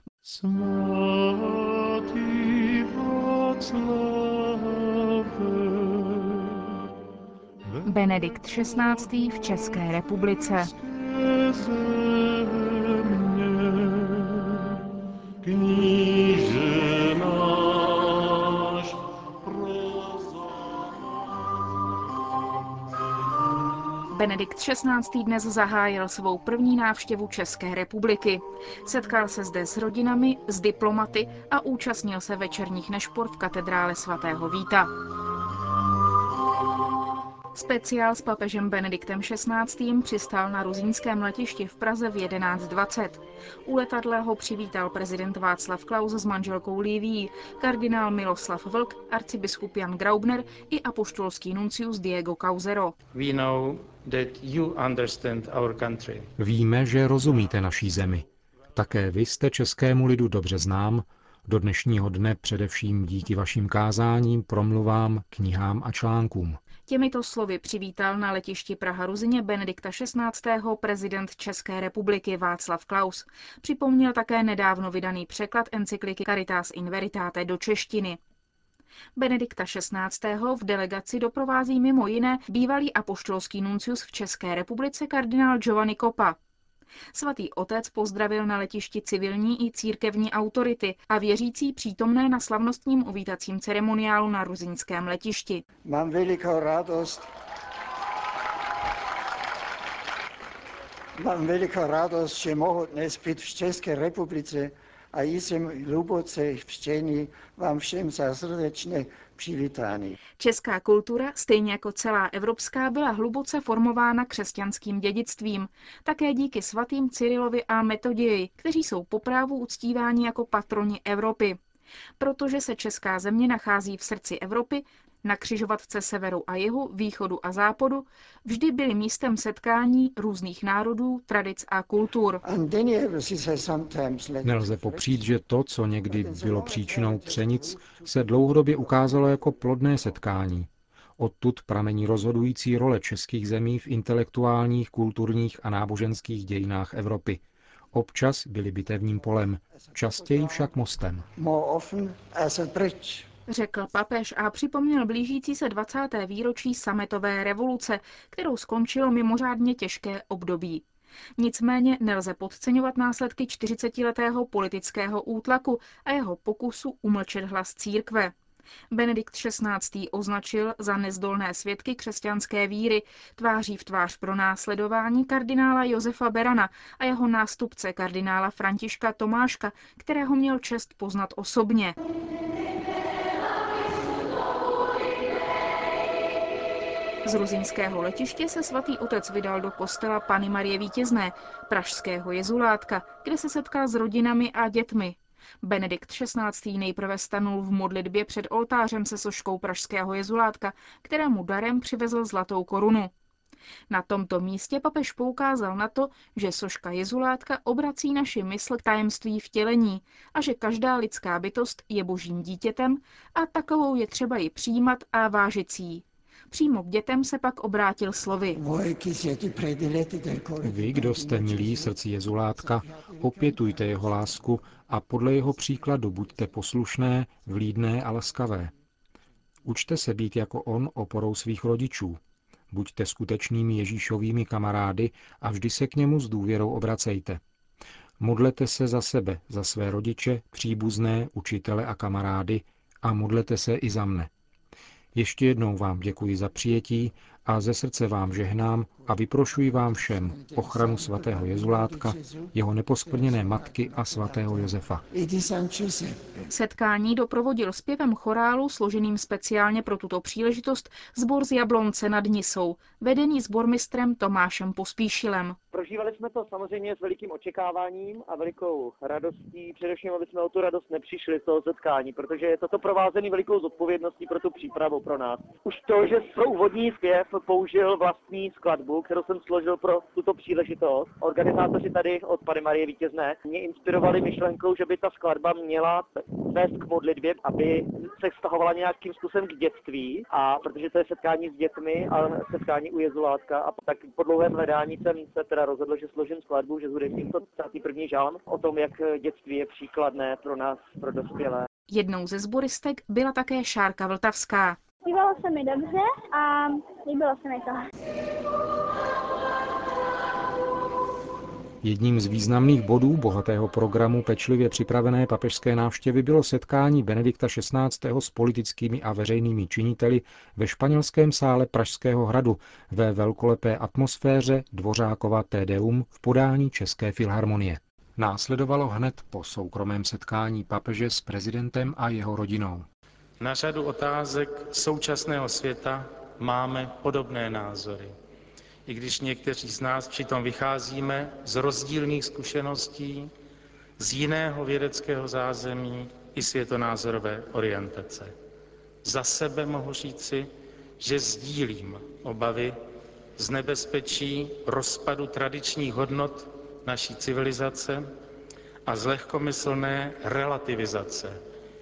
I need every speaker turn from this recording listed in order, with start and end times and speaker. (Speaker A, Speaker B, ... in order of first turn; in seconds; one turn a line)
Speaker A: 0.3-6.5
Speaker B: 7.8-10.7
Speaker A: 10.8-14.7
Speaker A: 15.4-20.6
Speaker B: 24.1-34.9
Speaker B: 37.5-53.0
Speaker A: 53.1-56.3
Speaker C: 56.4-58.2
Speaker C: 58.8-66.6
Speaker B: 66.9-78.2
Speaker B: 79.2-86.4
Speaker B: 87.1-95.6
Speaker D: 95.8-97.3
Speaker D: 101.2-110.2
Speaker B: 110.4-121.6
Speaker B: 122.2-132.4
Speaker D: 132.4-135.3
Speaker C: 134.4-147.4
Speaker D: 136.1-139.4
Speaker C: 147.9-151.3
Speaker D: 149.9-150.7
Speaker D: 151.3-153.3
Speaker B: 153.5-160.8
Speaker B: 161.4-168.3
Speaker B: 168.9-181.9
Speaker B: 187.2-203.1
Speaker B: 203.9-218.6
Speaker D: 218.5-221.9
Speaker C: 220.6-228.7
Speaker D: 222.6-224.3
Speaker C: 229.6-232.2
Speaker C: 232.7-237.4
Speaker C: 238.2-244.3
Speaker C: 245.1-255.0
Speaker D: 250.1-252.5
Speaker D: 253.1-256.5
Speaker B: 256.5-265.6
Speaker E: 265.7-301.7
Speaker B: 301.9-304.8
Speaker F: 305.0-307.9
Speaker C: 311.8-332.9
Speaker A: 333.4-338.1
Speaker A: 338.9-343.3
Speaker A: 344.0-348.3
Speaker A: 349.0-352.8
Speaker A: 353.4-358.1
Speaker A: 358.8-361.4